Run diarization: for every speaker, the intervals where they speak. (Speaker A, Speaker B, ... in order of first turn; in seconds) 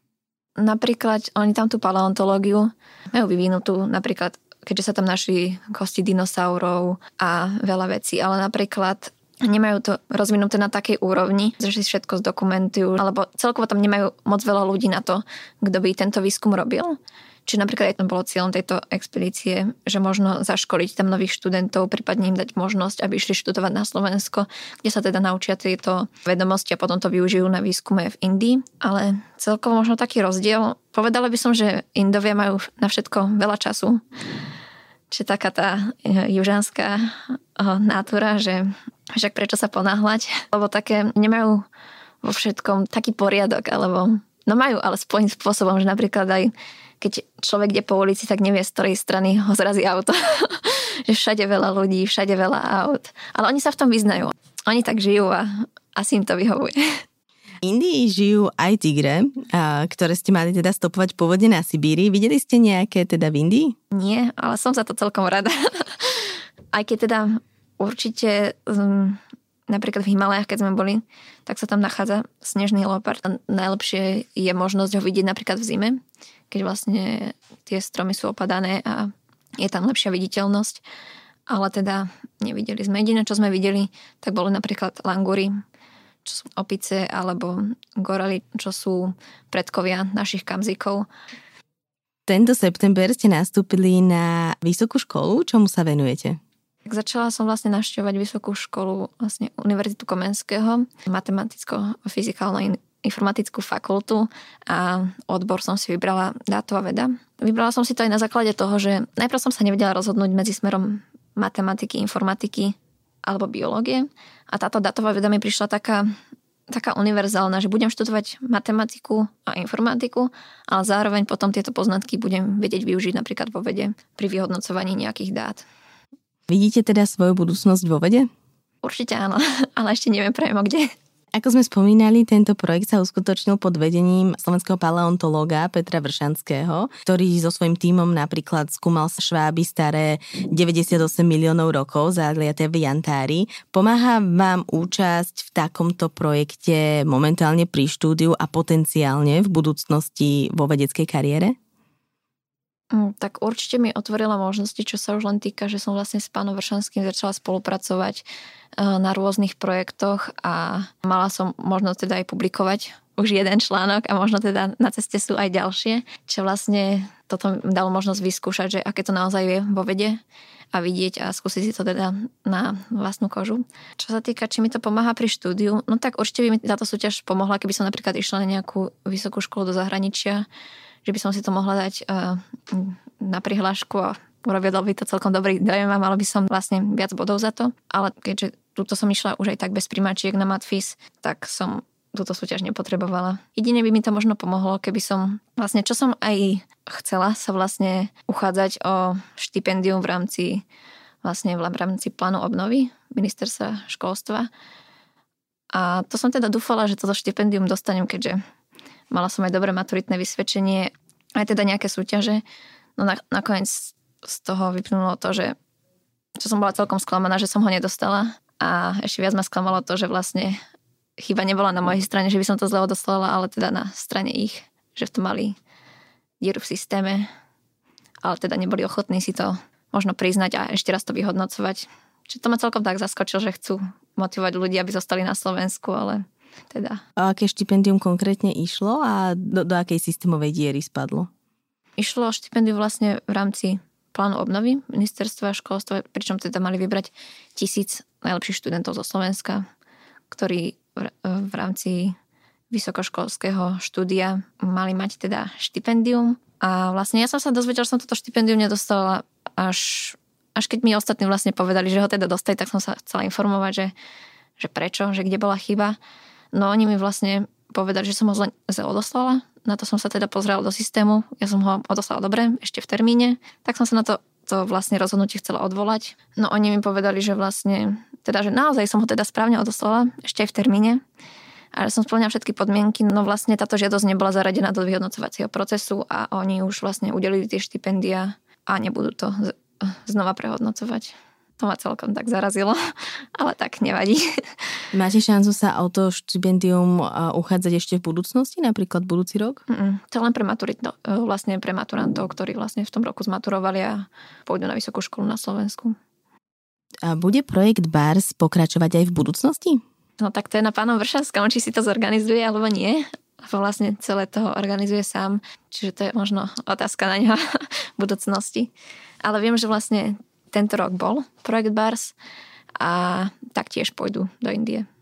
Speaker A: 0.6-34.0, 35.1-41.6, 42.2-57.0, 63.9-76.0, 76.5-80.8, 81.5-85.5, 86.2-91.1, 96.8-116.1, 116.7-125.6, 128.8-130.9, 152.9-158.2, 158.8-170.2, 170.7-180.4, 181.0-200.6, 201.2-204.5, 205.7-208.4, 209.1-212.4, 213.0-215.6, 216.4-220.6, 221.2-225.6, 226.4-227.3, 228.2-237.0, 242.0-249.7, 250.3-252.1, 252.7-263.9, 264.6-266.0, 266.5-281.0, 281.7-294.4, 299.7-305.9, 310.2-318.7, 319.2-322.1, 322.8-324.9
Speaker B: 57.6-63.7, 92.3-96.4, 126.5-128.3, 131.3-151.5, 237.2-241.3, 294.9-299.6, 307.0-309.8